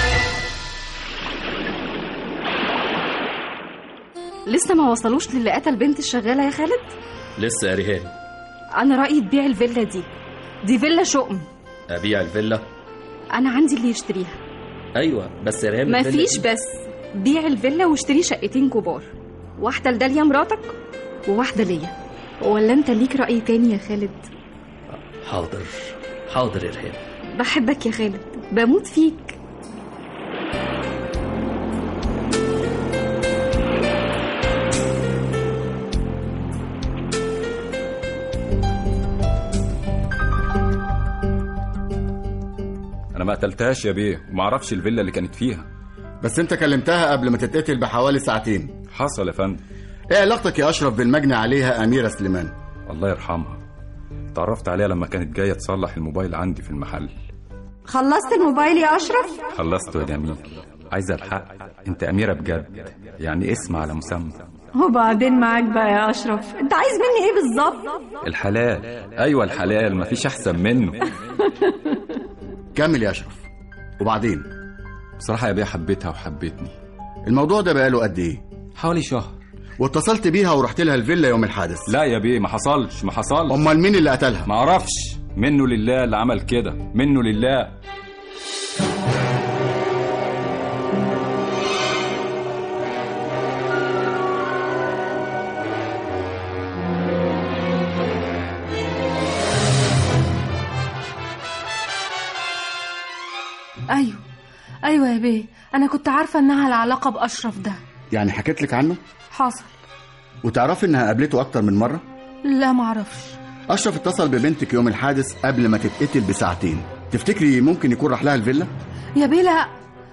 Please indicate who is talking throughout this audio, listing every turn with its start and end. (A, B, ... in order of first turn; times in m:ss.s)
0:04.5-0:06.9 A
0:07.4-0:08.1 B
0:08.8-0:10.1 A
0:10.6-0:11.5 A
0:11.9-0:12.7 B
0:13.3-0:14.4 A
0:15.0-0:16.4 B
0:15.9-0:20.7 A
0:21.3-0:24.3 A
0:25.2-0:27.0 B
0:27.4-0:29.4 A
0:43.1-0:45.7 C
0:46.2-0:48.8 D
0:48.9-0:49.6 C
0:50.1-0:52.5 D
0:52.9-0:53.6 C
0:54.3-0:57.1 C
0:57.9-0:59.4 E
0:59.5-1:04.4 C
1:04.8-1:07.9 E
1:08.2-1:11.1 C
1:12.8-1:13.4 D
1:14.0-1:14.5 D
1:15.2-1:16.8 C
1:17.3-1:18.4 D
1:18.8-1:19.4 C
1:19.8-1:21.9 D
1:21.9-1:23.6 C
1:23.5-1:24.5 D
1:24.5-1:27.7 C
1:43.9-1:44.2 F
1:44.9-1:47.8 F
1:48.1-1:49.0 D
1:49.3-1:49.7 F
1:50.4-1:52.0 D
1:52.4-1:53.3 F
1:53.7-1:58.7 D
1:59.2-1:59.7 F